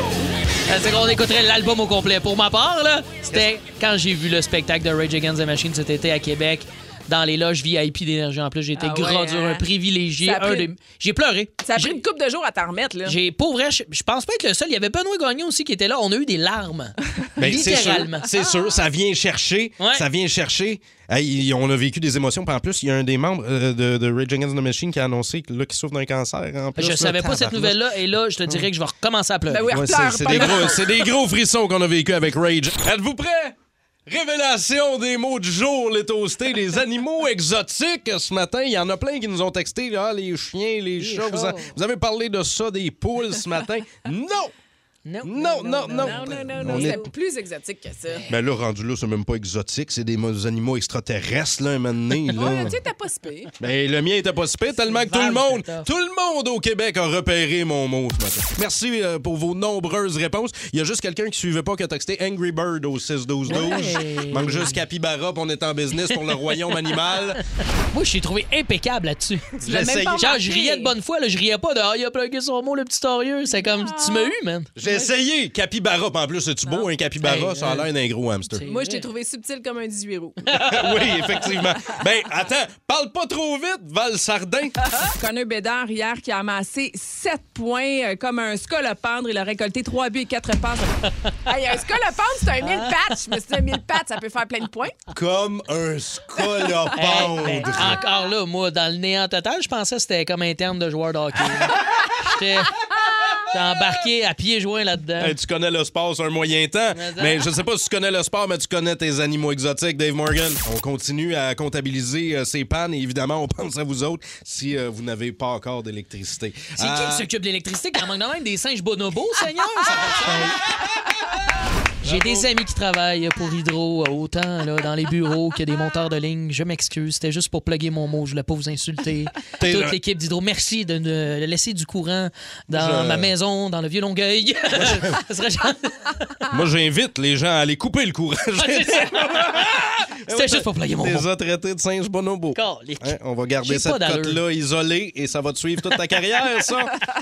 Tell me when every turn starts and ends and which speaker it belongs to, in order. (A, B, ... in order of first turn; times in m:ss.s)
0:00.7-0:12.0 A
0:08.8-0:09.7 B
0:10.2-0:10.7 B
0:11.6-0:13.2 B
0:13.1-0:18.3 A
0:17.4-0:27.8 C
0:19.8-0:20.0 A
0:26.8-0:30.7 A
0:29.5-0:31.1 B
0:29.7-0:33.6 C
0:34.1-0:44.5 C
0:41.0-0:41.8 A
0:45.1-0:47.0 A
0:45.2-0:47.1 C
0:45.9-0:48.3 B
0:48.3-0:52.8 C
0:52.3-0:52.6 A
0:52.3-0:53.5 B
0:53.6-1:07.4 C
0:54.8-0:55.9 A
1:03.5-1:04.8 A
1:07.9-1:09.6 A
1:09.6-1:10.2 C
1:09.6-1:10.9 B
1:10.1-1:14.7 A
1:13.5-1:14.3 B
1:14.8-1:18.6 C
1:14.8-1:15.1 B
1:17.2-1:17.9 A
1:18.5-1:19.1 A
1:18.7-1:20.5 B
1:20.5-1:21.1 A
1:20.6-1:24.8 C
1:21.6-1:21.9 B
1:25.0-1:30.9 B
1:31.1-1:31.3 A
1:31.5-1:35.0 B
1:32.6-1:32.9 A
1:35.1-1:38.0 C
1:37.0-1:42.8 A
1:43.5-1:45.4 A
1:45.2-1:57.3 C
1:46.9-1:47.5 A
1:56.8-2:00.6 A
2:00.1-2:01.3 C
2:02.0-2:02.5 C
2:02.0-2:16.1 A
2:09.6-2:10.0 C
2:12.7-2:13.3 C
2:14.8-2:15.1 C
2:16.5-2:27.0 C
2:18.6-2:19.7 A
2:20.3-2:21.3 A
2:22.5-2:24.4 A